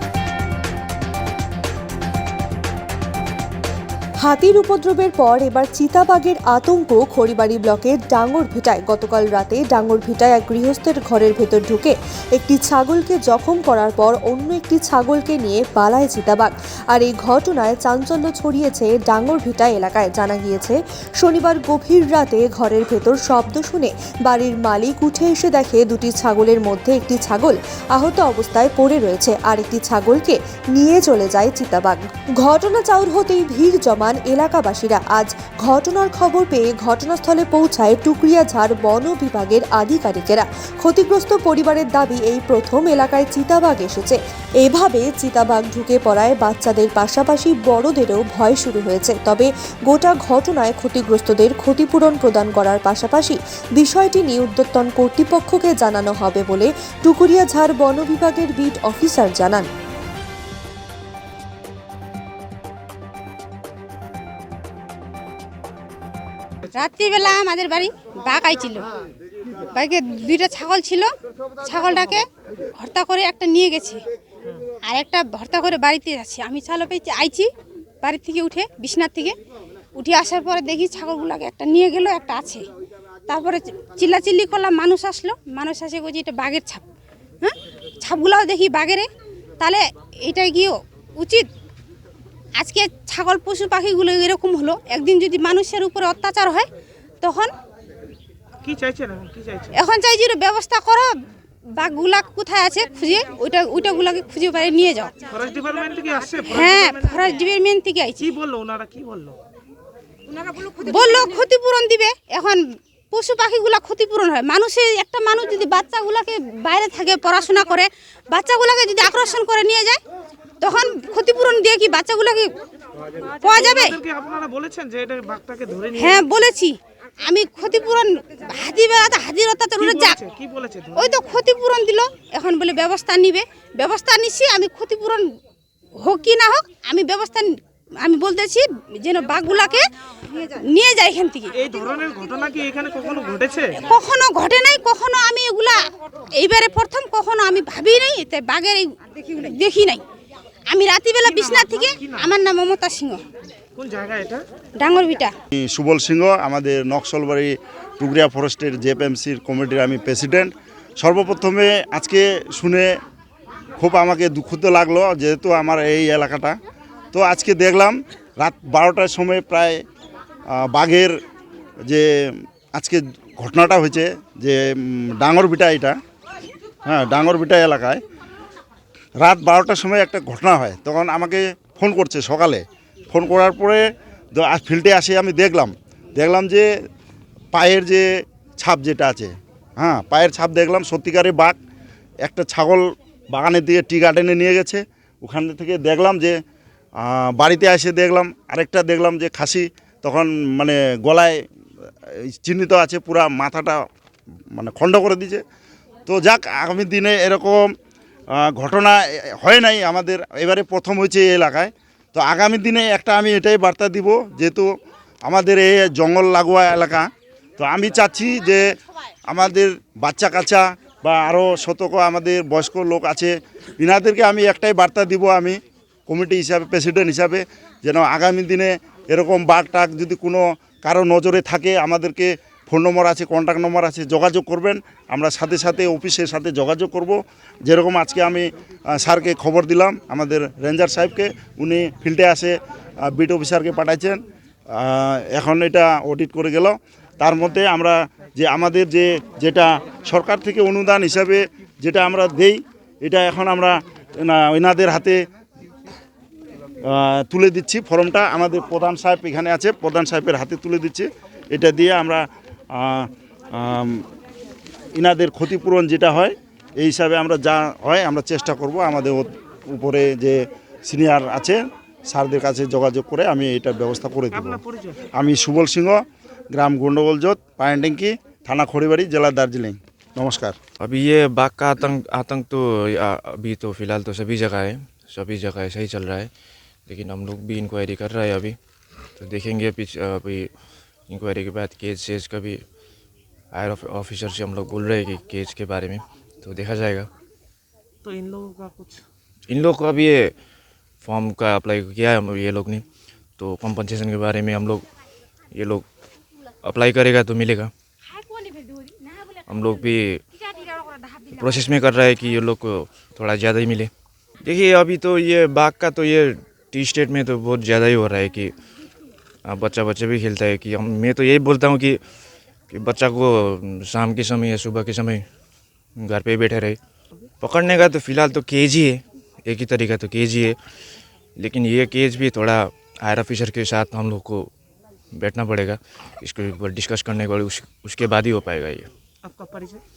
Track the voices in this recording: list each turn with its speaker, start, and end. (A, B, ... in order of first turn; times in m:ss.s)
0:04.2-0:59.7 A
1:06.7-1:08.8 B
1:09.7-1:11.1 B
1:11.6-1:12.2 B
1:12.8-1:14.0 B
1:14.8-1:17.5 B
1:18.0-1:19.4 B
1:20.0-1:22.6 B
1:23.3-1:26.8 B
1:27.4-1:29.1 B
1:29.6-1:31.5 B
1:32.6-1:36.7 B
1:37.2-1:37.5 B
1:38.6-1:39.8 C
1:39.7-1:41.1 B
1:41.7-1:45.3 B
1:45.3-1:47.2 C
1:46.4-1:48.3 B
1:48.2-1:49.4 C
1:50.6-2:00.0 B
2:00.6-2:02.5 B
2:03.2-2:04.0 B
2:03.5-2:06.2 C
2:05.9-2:10.2 B
2:09.8-2:11.1 C
2:10.9-2:15.3 B
2:16.0-2:21.6 B
2:21.6-2:23.7 C
2:23.8-2:30.0 B
2:30.7-2:33.2 B
2:31.2-2:32.3 C
2:33.8-2:34.4 C
2:34.8-2:35.3 B
2:35.5-2:43.0 D
2:43.8-2:46.5 D
2:47.1-2:49.8 D
2:50.5-2:51.2 D
2:51.9-2:56.0 D
2:56.8-2:58.0 D
2:59.2-3:03.8 D
3:04.3-3:06.7 D
3:07.5-3:08.0 D
3:08.6-3:11.6 D
3:12.2-3:16.4 D
3:17.0-3:21.4 D
3:22.1-3:23.8 D
3:24.5-3:25.4 D
3:26.1-3:27.7 D
3:28.4-3:34.7 D
3:35.2-3:37.0 D
3:37.6-3:38.6 D
3:39.3-4:04.2 D
4:04.7-4:15.2 D
4:16.8-4:24.0 D
4:24.9-4:34.6 D
4:34.3-4:35.0 C
4:35.2-4:40.6 D
4:40.8-4:46.3 E
4:46.9-4:48.5 E
4:49.2-4:50.5 E
4:51.1-4:52.6 E
4:53.5-4:57.1 E
4:58.0-4:59.0 C
4:59.5-5:00.3 E
5:01.0-5:02.8 E
5:03.4-5:04.9 E
5:05.5-5:05.8 E
5:06.6-5:07.7 E
5:09.5-5:10.2 E
5:11.2-5:13.9 E
5:14.4-5:18.5 E
5:19.5-5:22.0 E
5:22.7-5:25.2 E
5:26.0-5:26.8 E
5:27.4-5:30.5 E
5:31.4-5:34.5 E
5:35.2-5:38.9 E
5:39.2-5:39.8 C